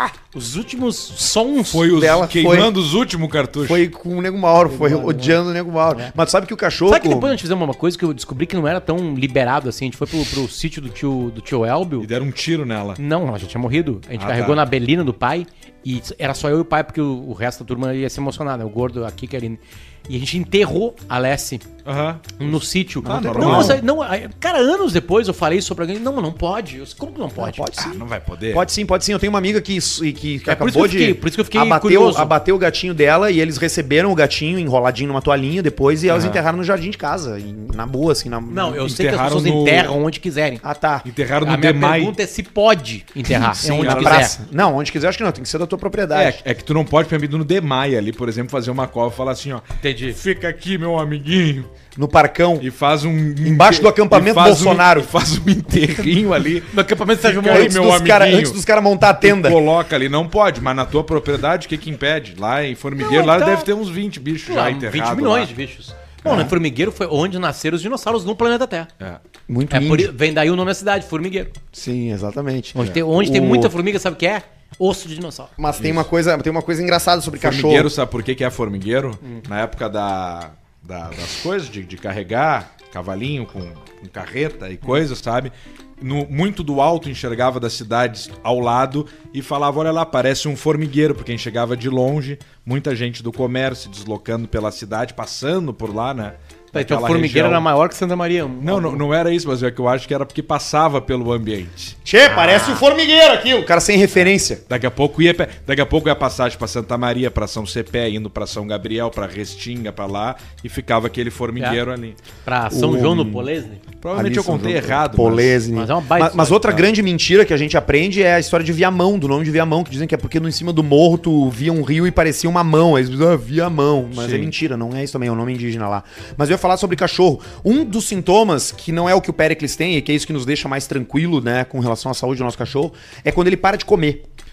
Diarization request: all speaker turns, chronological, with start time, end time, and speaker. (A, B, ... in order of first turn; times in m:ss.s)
0:00.3-0:01.9 A
0:01.7-0:03.8 B
0:01.9-0:02.7 C
0:03.6-0:07.3 C
0:04.7-0:06.1 A
0:06.9-0:12.1 A
0:12.0-0:13.0 B
0:13.0-0:21.6 A
0:14.2-0:14.6 B
0:21.8-0:22.5 B
0:22.4-0:27.7 A
0:23.0-0:23.8 C
0:23.0-0:23.8 B
0:27.4-0:38.8 C
0:27.8-0:28.6 B
0:30.4-0:32.3 A
0:36.1-0:36.4 B
0:38.5-0:40.6 A
0:38.8-0:39.9 B
0:40.6-0:41.1 C
0:41.0-0:42.1 B
0:41.4-0:44.4 A
0:43.3-0:46.4 C
0:43.6-0:44.3 B
0:46.1-0:51.7 B
0:49.8-0:50.2 A
0:52.0-0:52.6 C
0:52.6-0:58.6 B
0:53.4-0:55.1 C
0:56.7-0:57.8 A
0:57.4-0:59.6 C
0:59.2-1:05.5 B
1:03.0-1:03.7 A
1:04.5-1:08.9 A
1:06.2-1:06.5 C
1:09.5-1:10.1 C
1:09.7-1:11.5 A
1:11.7-1:13.7 C
1:12.7-1:15.5 A
1:15.6-1:17.9 C
1:15.8-1:16.0 B
1:17.4-1:37.6 B
1:36.7-1:39.0 A
1:38.6-1:42.0 B
1:42.0-1:44.6 C
1:42.2-1:42.8 A
1:44.7-1:52.2 B
1:52.4-1:53.8 A
1:52.7-1:53.5 C
1:54.0-1:55.6 B
1:54.1-2:14.2 C
1:55.7-1:56.8 A
2:04.1-2:04.5 B